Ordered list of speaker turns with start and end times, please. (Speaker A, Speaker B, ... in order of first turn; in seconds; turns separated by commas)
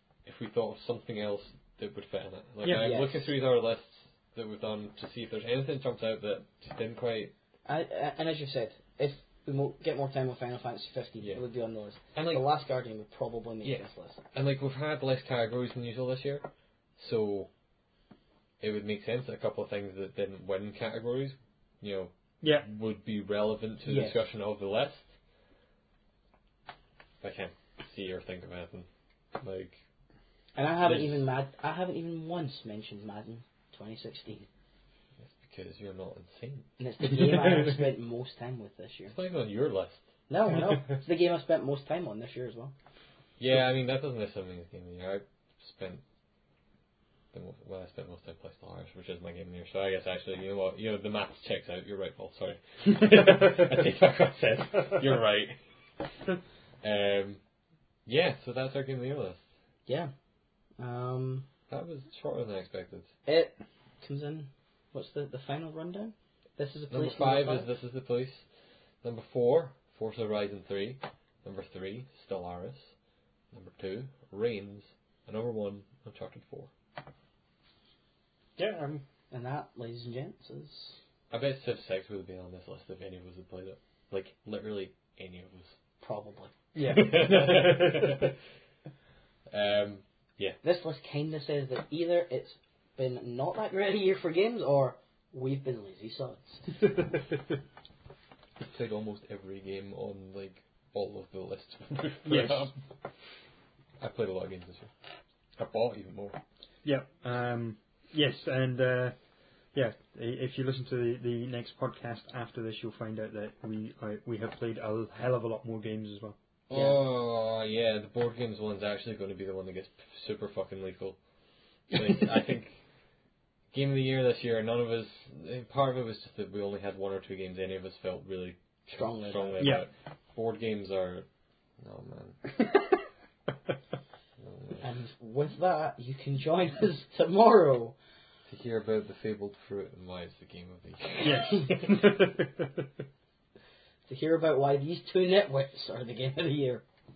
Speaker A: 0.2-7.3, Speaker B: 2.6-2.9, Speaker C: 2.7-3.2, Speaker C: 7.7-14.2, Speaker A: 12.1-12.4, Speaker A: 13.6-16.4, Speaker A: 17.0-17.5, Speaker A: 18.6-25.1, Speaker B: 22.4-22.7, Speaker C: 23.8-24.2, Speaker A: 27.2-28.9, Speaker A: 29.4-29.8, Speaker C: 30.5-34.5, Speaker A: 30.8-31.2, Speaker A: 35.2-36.7, Speaker C: 36.8-39.1, Speaker A: 39.1-40.0, Speaker C: 40.3-42.7, Speaker A: 43.4-46.0, Speaker A: 47.3-55.6, Speaker A: 56.8-57.4, Speaker A: 58.0-59.5, Speaker C: 60.8-61.5, Speaker A: 61.7-63.1, Speaker C: 63.2-67.7, Speaker A: 66.9-68.5, Speaker A: 69.0-72.9, Speaker A: 73.5-76.7, Speaker B: 78.6-79.0, Speaker C: 79.3-81.0, Speaker A: 81.3-85.8, Speaker C: 86.0-86.6, Speaker B: 86.7-88.2, Speaker A: 86.8-88.3, Speaker A: 89.5-90.6, Speaker C: 90.6-96.9, Speaker A: 98.7-102.8, Speaker B: 102.2-102.7, Speaker A: 104.0-104.9, Speaker A: 105.6-106.4, Speaker B: 106.8-109.1, Speaker B: 109.7-116.3, Speaker C: 116.7-117.0, Speaker A: 116.7-121.2, Speaker A: 121.9-122.8, Speaker A: 123.7-131.3, Speaker C: 128.9-129.8, Speaker B: 129.6-129.8, Speaker A: 131.8-132.6, Speaker A: 134.4-134.8, Speaker C: 134.8-137.9, Speaker A: 138.5-141.8, Speaker B: 141.2-142.7, Speaker C: 144.1-146.8